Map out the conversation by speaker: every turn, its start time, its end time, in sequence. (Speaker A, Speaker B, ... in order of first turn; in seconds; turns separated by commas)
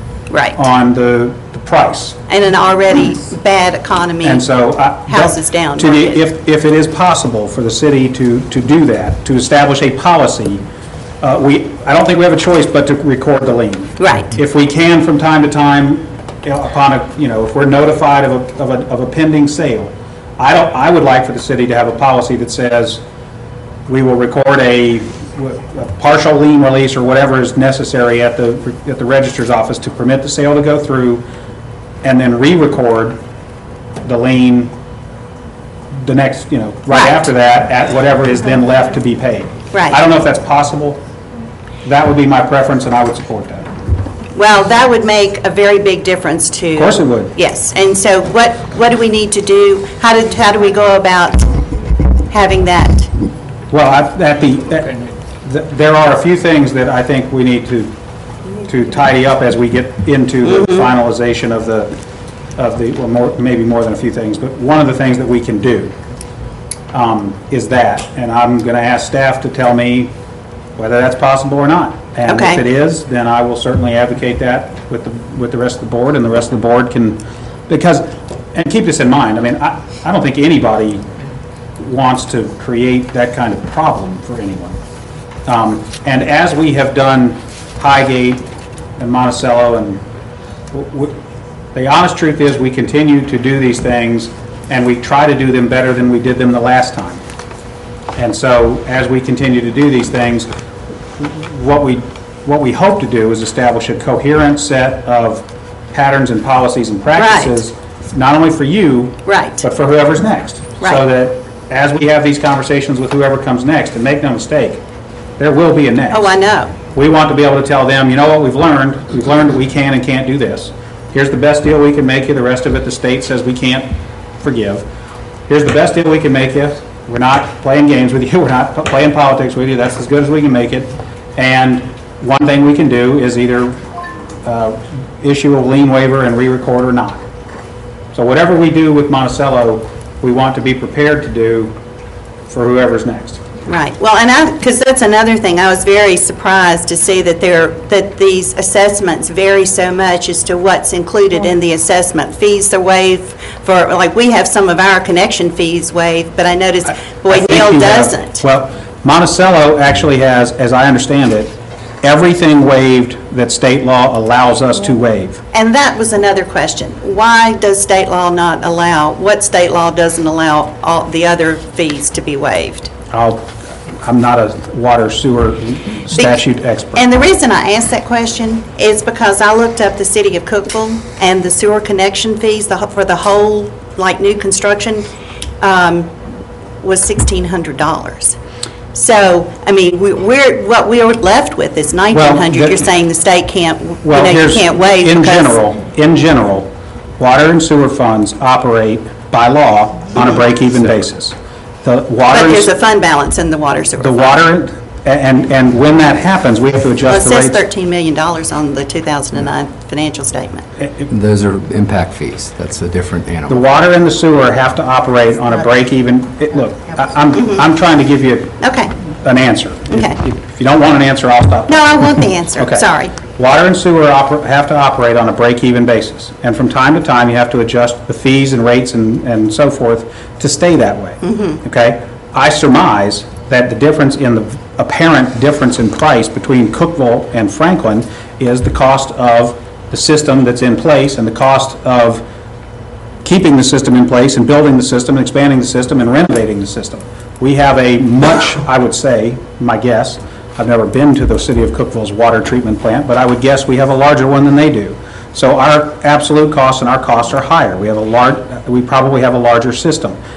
Speaker A: 0.3-0.6, Speaker B: 0.5-2.2, Speaker A: 2.3-4.5, Speaker B: 4.2-10.6, Speaker A: 5.0-6.2, Speaker B: 11.2-23.0, Speaker A: 14.0-14.4, Speaker B: 23.9-31.2, Speaker B: 32.0-33.2, Speaker B: 34.0-34.7, Speaker B: 36.0-41.0, Speaker A: 36.9-37.3, Speaker A: 39.7-40.0, Speaker B: 41.8-43.7, Speaker A: 44.3-51.6, Speaker B: 46.7-47.3, Speaker A: 52.3-53.1, Speaker B: 53.7-57.9, Speaker B: 58.6-61.9, Speaker A: 60.5-60.9, Speaker B: 62.6-65.9, Speaker B: 66.9-70.1, Speaker B: 70.8-81.0, Speaker A: 72.2-72.6, Speaker B: 81.8-84.8, Speaker B: 85.5-90.0, Speaker B: 90.7-91.2, Speaker B: 91.7-97.2, Speaker B: 98.2-100.5, Speaker B: 101.2-114.8, Speaker A: 107.1-107.6, Speaker A: 109.2-109.6, Speaker B: 115.4-116.3, Speaker A: 116.1-116.7, Speaker B: 116.9-124.8, Speaker B: 125.5-133.8, Speaker B: 134.4-137.2, Speaker B: 138.1-141.7, Speaker B: 142.5-143.4, Speaker A: 143.7-158.4, Speaker B: 157.3-165.4, Speaker A: 165.5-172.9, Speaker B: 173.1-177.1, Speaker A: 176.2-176.4, Speaker A: 176.9-185.1, Speaker A: 185.6-186.1, Speaker A: 186.8-188.3, Speaker A: 188.9-195.6, Speaker B: 192.1-192.9, Speaker B: 194.0-202.7, Speaker A: 202.3-204.4, Speaker B: 204.0-207.6, Speaker A: 207.0-210.7, Speaker B: 210.8-211.1, Speaker C: 211.1-213.6, Speaker B: 213.5-218.6, Speaker A: 217.3-217.6, Speaker A: 218.6-218.9, Speaker B: 219.2-242.2, Speaker A: 219.9-220.2, Speaker A: 221.7-223.1, Speaker A: 231.2-231.6, Speaker B: 243.2-260.2